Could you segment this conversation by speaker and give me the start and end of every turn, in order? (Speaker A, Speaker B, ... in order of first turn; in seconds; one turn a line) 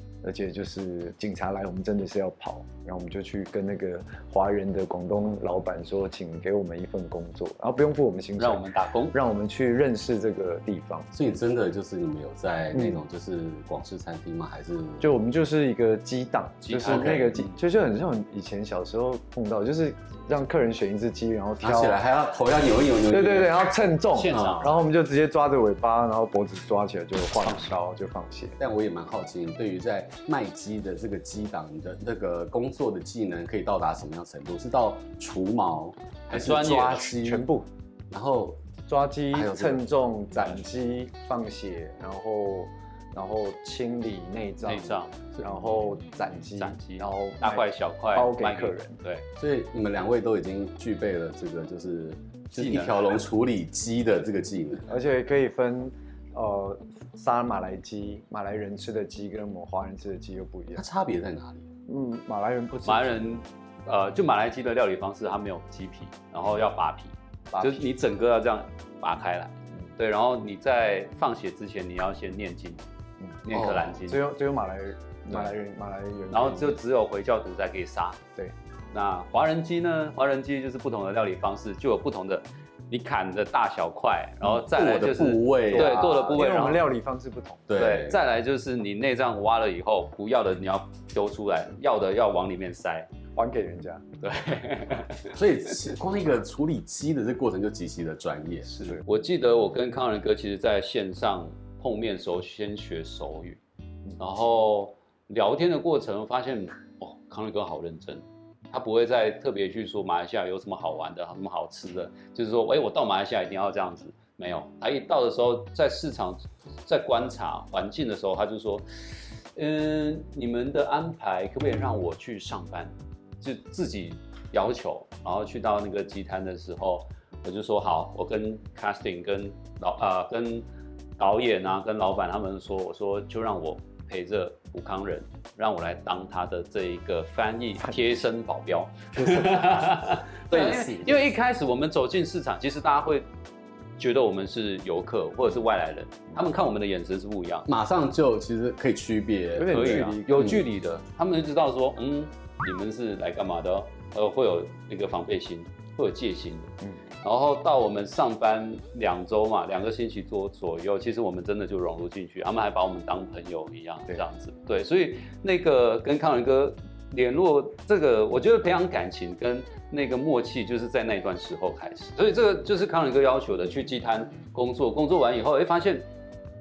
Speaker A: 0.2-11.1
Speaker B: 8.4-9.2
Speaker C: 11.1-15.1
Speaker A: 12.7-13.0
Speaker A: 15.0-22.0
Speaker B: 16.6-17.5
Speaker C: 16.8-17.4
Speaker C: 21.6-23.6
Speaker A: 23.1-28.6
Speaker B: 24.1-24.7
Speaker C: 24.3-24.7
Speaker C: 28.6-37.4
Speaker B: 36.3-37.0
Speaker A: 36.4-37.7
Speaker C: 38.1-38.6
Speaker A: 38.9-49.0
Speaker C: 39.3-39.8
Speaker B: 44.6-45.1
Speaker B: 46.6-49.2
Speaker C: 49.4-54.9
Speaker B: 52.5-53.0
Speaker A: 54.9-60.9
Speaker C: 60.7-61.7
Speaker A: 61.9-63.3
Speaker B: 62.8-72.8
Speaker A: 67.5-67.8
Speaker B: 73.4-74.2
Speaker C: 73.5-73.8
Speaker A: 74.0-76.8
Speaker B: 76.3-78.2
Speaker B: 78.9-86.8
Speaker C: 84.5-86.3
Speaker A: 85.7-87.8
Speaker C: 87.7-88.2
Speaker B: 87.7-93.1
Speaker A: 93.3-94.0
Speaker B: 94.2-95.4
Speaker C: 95.3-98.7
Speaker B: 98.8-103.6
Speaker B: 104.2-118.8
Speaker B: 119.5-130.6
Speaker B: 131.2-143.3
Speaker A: 139.2-139.8
Speaker C: 140.6-140.9
Speaker B: 144.0-147.7
Speaker C: 147.7-150.6
Speaker A: 149.6-150.6
Speaker B: 149.7-176.1